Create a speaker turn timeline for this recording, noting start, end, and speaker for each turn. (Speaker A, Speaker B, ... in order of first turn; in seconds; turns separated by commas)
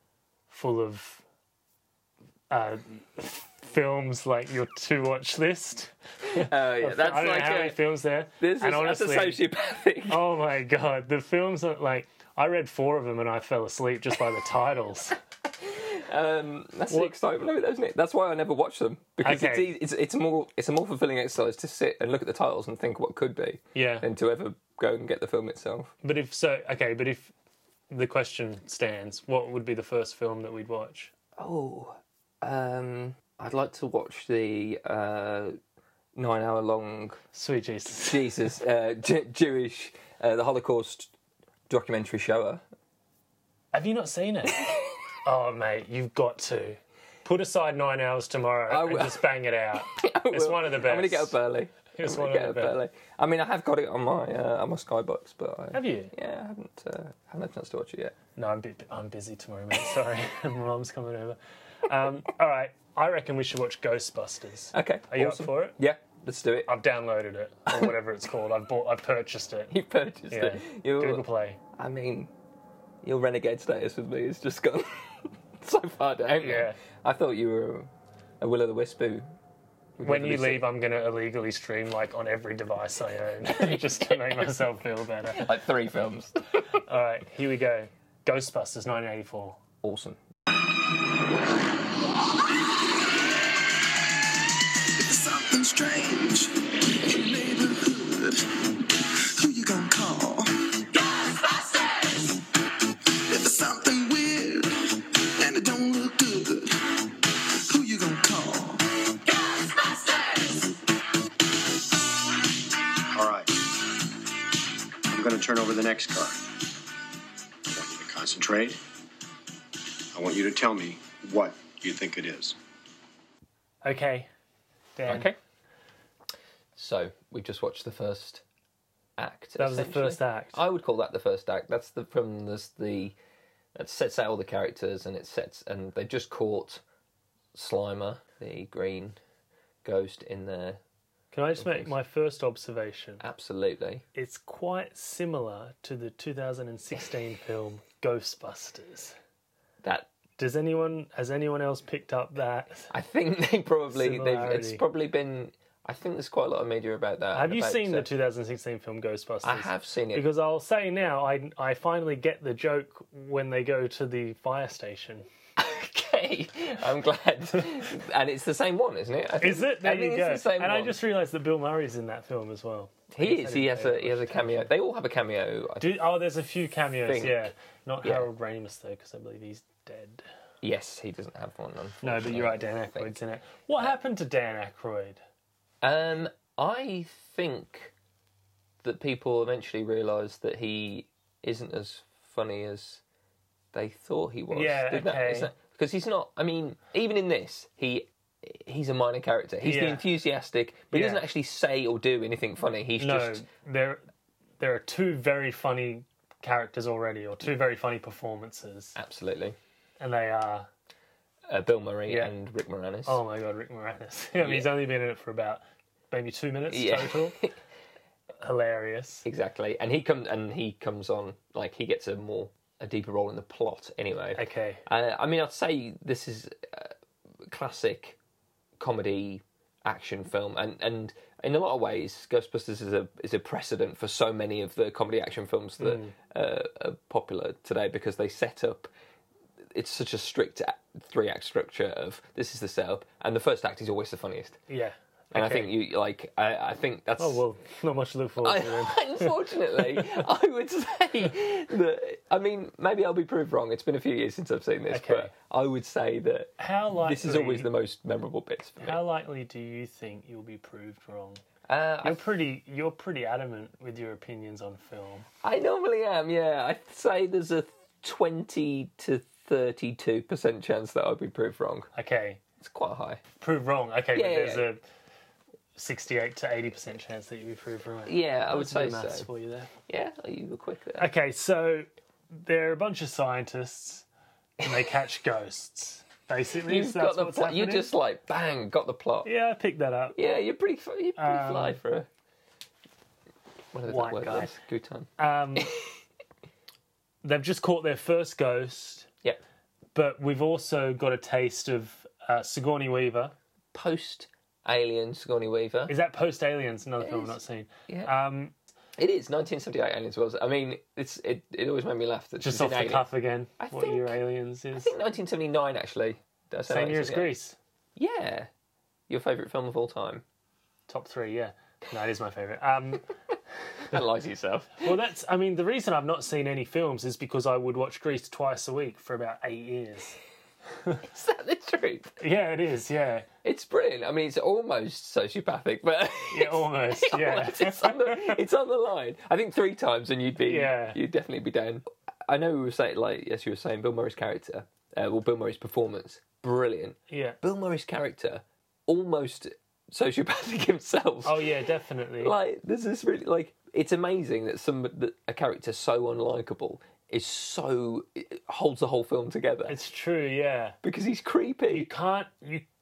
Speaker A: 0.5-1.2, Speaker A: 2.5-9.4, Speaker B: 6.2-7.8, Speaker B: 8.4-10.3, Speaker A: 10.1-15.2, Speaker B: 15.6-25.9, Speaker A: 19.2-19.7, Speaker A: 23.7-24.1, Speaker A: 26.0-27.3, Speaker A: 27.9-31.1, Speaker B: 31.4-35.6, Speaker B: 36.1-37.2, Speaker A: 37.3-38.4, Speaker B: 38.0-41.1, Speaker B: 41.7-42.6, Speaker A: 43.7-44.7, Speaker A: 45.2-51.4, Speaker B: 48.7-58.1, Speaker A: 51.9-52.8, Speaker A: 55.7-56.1, Speaker A: 58.4-65.8, Speaker B: 64.7-66.7, Speaker A: 66.7-69.7, Speaker B: 67.7-67.9, Speaker B: 69.7-71.2, Speaker A: 70.3-71.6, Speaker B: 71.8-72.3, Speaker B: 73.0-79.3, Speaker A: 76.4-76.8, Speaker B: 80.0-80.7, Speaker A: 80.0-85.5, Speaker B: 85.3-86.4, Speaker A: 86.8-89.6, Speaker B: 89.8-90.2, Speaker C: 95.0-101.0, Speaker C: 101.5-102.3, Speaker C: 103.2-109.2, Speaker C: 110.1-110.4, Speaker D: 113.1-113.5, Speaker D: 115.1-116.4, Speaker D: 117.7-118.8, Speaker D: 120.1-122.6, Speaker A: 123.8-124.3, Speaker A: 125.0-125.3, Speaker B: 125.0-125.3, Speaker B: 126.8-128.4, Speaker B: 129.2-133.1, Speaker A: 129.6-130.6, Speaker B: 133.7-136.8, Speaker B: 137.5-139.2, Speaker B: 139.8-140.8, Speaker A: 141.3-143.2, Speaker B: 141.6-141.9, Speaker B: 143.2-144.0, Speaker A: 144.1-149.1, Speaker B: 149.8-150.1, Speaker A: 150.4-152.9, Speaker B: 152.9-158.1, Speaker A: 153.9-154.8, Speaker A: 157.3-165.2, Speaker B: 159.4-160.2, Speaker B: 165.6-171.0, Speaker A: 169.4-174.6, Speaker B: 173.1-176.0, Speaker A: 175.8-180.2, Speaker B: 177.0-177.5, Speaker B: 178.0-178.3, Speaker B: 180.6-183.2, Speaker A: 182.0-185.2, Speaker B: 185.8-187.9, Speaker B: 188.8-193.0, Speaker B: 193.7-203.4, Speaker A: 194.5-195.5, Speaker A: 199.6-200.0, Speaker A: 200.9-201.2, Speaker A: 203.0-204.0, Speaker A: 204.6-208.9, Speaker B: 208.9-209.6, Speaker A: 210.0-210.7, Speaker B: 211.5-213.2, Speaker A: 212.1-212.3, Speaker A: 213.1-217.4, Speaker B: 214.4-214.7, Speaker B: 216.7-217.5, Speaker A: 218.4-219.2, Speaker B: 219.2-228.2, Speaker A: 224.3-224.8, Speaker B: 228.8-238.9, Speaker A: 235.8-236.1, Speaker B: 239.7-244.6, Speaker A: 244.7-245.7, Speaker B: 245.3-247.4, Speaker A: 247.2-249.3, Speaker B: 248.4-259.0, Speaker A: 254.9-255.3, Speaker A: 256.6-257.7, Speaker A: 258.8-261.4, Speaker B: 261.7-262.2, Speaker A: 262.0-265.2, Speaker B: 265.4-271.9, Speaker A: 271.9-272.4, Speaker B: 272.6-273.2, Speaker A: 273.4-274.8, Speaker B: 274.1-274.7, Speaker A: 275.8-279.7, Speaker B: 278.1-279.3, Speaker B: 279.9-281.1, Speaker A: 281.0-284.0, Speaker A: 284.6-287.9, Speaker B: 286.6-289.3, Speaker A: 289.2-290.2, Speaker B: 290.1-292.1, Speaker A: 291.2-291.8, Speaker B: 293.7-295.7, Speaker A: 293.9-294.5, Speaker A: 295.2-295.7, Speaker A: 297.2-299.1, Speaker A: 299.9-303.3, Speaker B: 303.7-305.9, Speaker A: 305.9-308.5, Speaker B: 307.0-308.1, Speaker B: 309.0-313.1, Speaker A: 312.4-314.9, Speaker B: 313.6-314.2, Speaker B: 314.8-317.3, Speaker A: 316.7-317.6, Speaker B: 317.9-318.5, Speaker B: 319.1-320.2, Speaker A: 320.9-323.1, Speaker B: 323.9-324.9, Speaker A: 324.8-330.2, Speaker B: 331.0-332.1, Speaker A: 332.2-333.3, Speaker B: 333.4-351.4, Speaker A: 336.3-338.4, Speaker A: 340.4-341.0, Speaker A: 347.1-347.4, Speaker A: 351.2-352.3, Speaker B: 352.2-359.8, Speaker A: 359.7-360.8, Speaker B: 360.8-361.9, Speaker A: 361.7-362.6